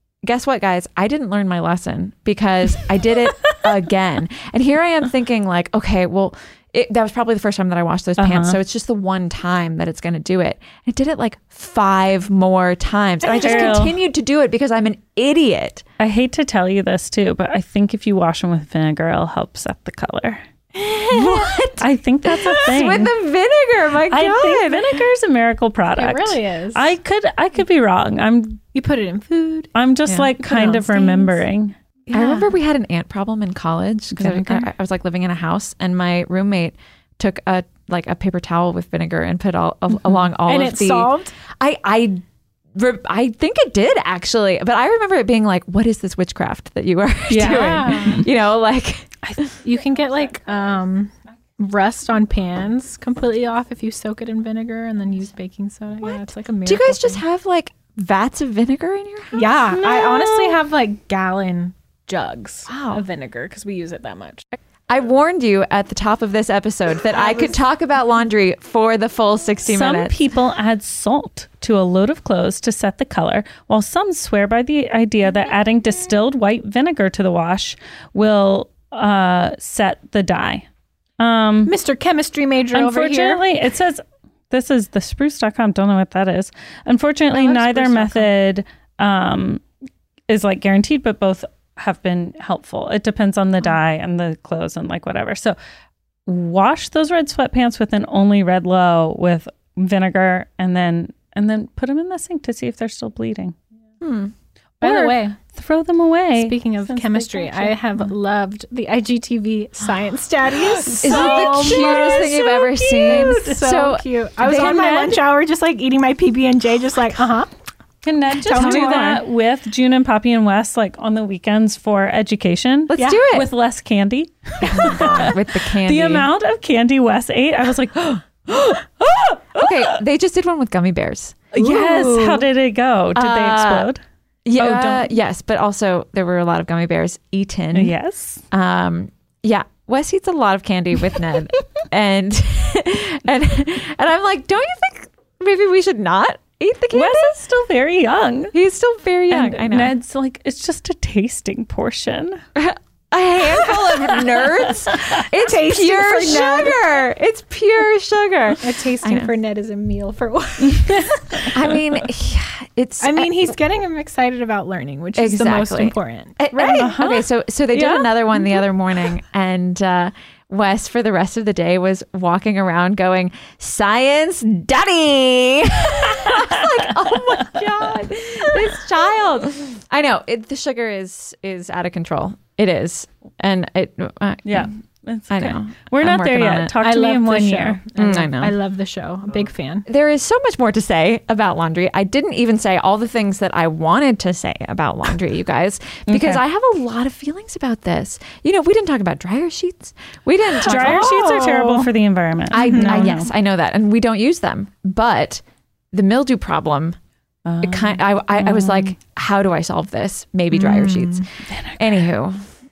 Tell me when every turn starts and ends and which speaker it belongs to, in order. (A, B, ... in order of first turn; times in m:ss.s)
0:00.2-0:15.8 A
0:08.2-0:08.6 B
0:13.4-0:14.0 B
0:16.0-0:20.4 B
0:20.8-0:21.6 C
0:21.1-0:25.0 A
0:21.8-0:23.1 B
0:24.1-0:28.6 B
0:25.9-0:26.9 C
0:28.7-0:29.7 C
0:29.8-0:31.8 B
0:30.4-0:31.4 C
0:32.1-0:32.5 C
0:32.1-0:42.2 A
0:34.1-0:34.7 B
0:40.4-0:41.4 C
0:42.8-0:49.5 A
0:47.3-0:48.3 B
0:47.4-0:48.3 C
0:49.6-0:57.2 C
0:56.6-0:59.5 A
0:59.3-1:04.4 C
0:59.7-1:00.6 B
1:02.7-1:03.0 A
1:04.9-1:10.2 A
1:07.1-1:07.6 C
1:09.7-1:20.7 B
1:21.2-1:21.7 B
1:21.7-1:23.4 C
1:22.7-1:29.6 B
1:27.3-1:28.3 C
1:30.3-1:35.6 B
1:36.3-1:43.6 B
1:44.0-1:44.3 A
1:44.8-1:45.4 C
1:44.8-1:47.8 B
1:46.4-1:57.5 C
1:50.8-1:53.6 B
1:51.0-1:55.1 A
1:54.4-1:55.2 B
1:58.0-2:09.9 B
1:58.4-1:59.2 A
1:58.4-1:59.2 C
2:02.9-2:03.5 A
2:04.8-2:06.3 A
2:08.5-2:08.8 A
2:09.5-2:11.6 A
2:11.5-2:14.0 B
2:11.6-2:12.4 C
2:13.2-2:13.9 A
2:14.4-2:17.9 A
2:14.6-2:15.1 B
2:17.7-2:18.4 B
2:18.5-2:27.4 A
2:26.9-2:28.5 B
2:28.5-2:29.9 A
2:29.3-2:32.4 B
2:32.6-2:39.3 A
2:35.2-2:37.0 C
2:38.6-2:41.5 C
2:40.6-2:41.8 B
2:41.5-2:43.6 A
2:43.0-2:46.4 C
2:45.2-3:04.7 A
2:46.5-2:48.6 B
2:56.2-2:57.6 B
3:04.4-3:07.8 B
3:05.3-3:06.8 A
3:06.8-3:09.9 C
3:08.0-3:08.5 A
3:09.9-3:21.2 A
3:16.1-3:16.4 B
3:20.6-3:21.9 C
3:20.6-3:23.3 B
3:22.5-3:27.0 A
3:22.6-3:23.1 C
3:27.5-3:29.0 B
3:27.6-3:31.3 A
3:30.5-3:31.2 C
3:31.5-3:32.0 B
3:31.8-3:32.4 A